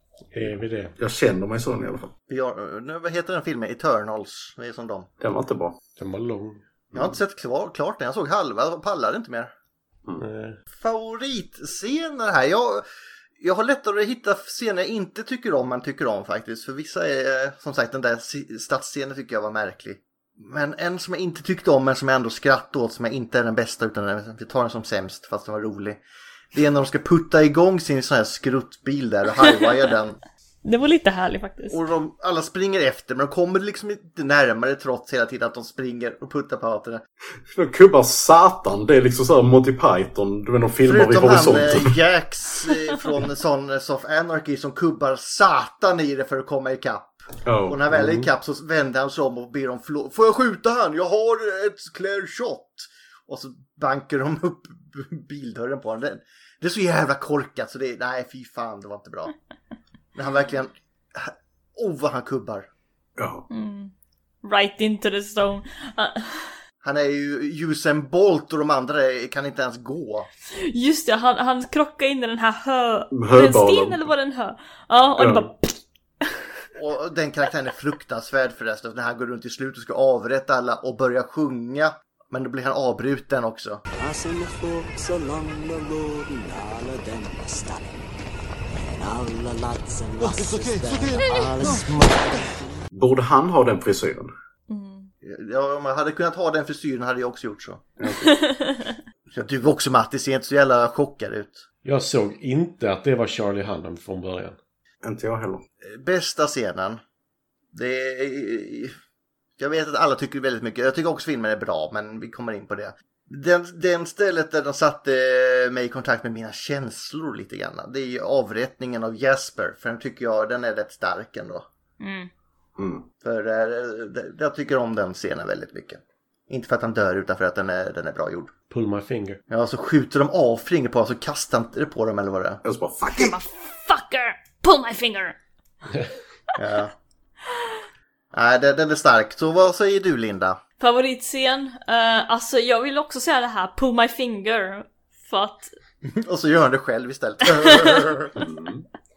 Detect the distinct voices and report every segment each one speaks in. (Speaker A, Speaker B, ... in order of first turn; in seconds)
Speaker A: 0.3-0.9, 6.0-6.6, 10.2-10.6, 101.8-104.6, 128.7-129.4
Speaker B: 1.0-2.1, 5.2-5.8, 37.5-41.9, 47.4-48.3, 63.2-63.5, 73.1-74.1, 75.2-75.5, 92.9-94.3, 98.0-98.3, 105.0-105.6, 122.8-123.0, 132.6-133.3, 148.4-148.8
Speaker C: 2.3-5.1, 6.9-9.5, 10.7-12.8, 13.4-26.0, 26.5-30.2, 31.7-37.0, 40.8-59.3, 60.1-62.7, 66.8-70.3, 76.8-83.8, 95.2-97.8, 99.3-101.6, 105.8-107.0, 107.7-108.9, 109.6-121.6, 123.2-128.5, 129.5-132.6, 136.6-136.9, 138.3-140.6, 146.0-148.3
Speaker D: 30.6-31.8, 63.5-66.5, 70.7-75.8, 94.7-95.1, 98.2-99.0, 122.0-122.3, 133.2-135.3, 140.8-145.7, 147.6-148.0
Speaker E: 84.0-88.1, 88.7-92.7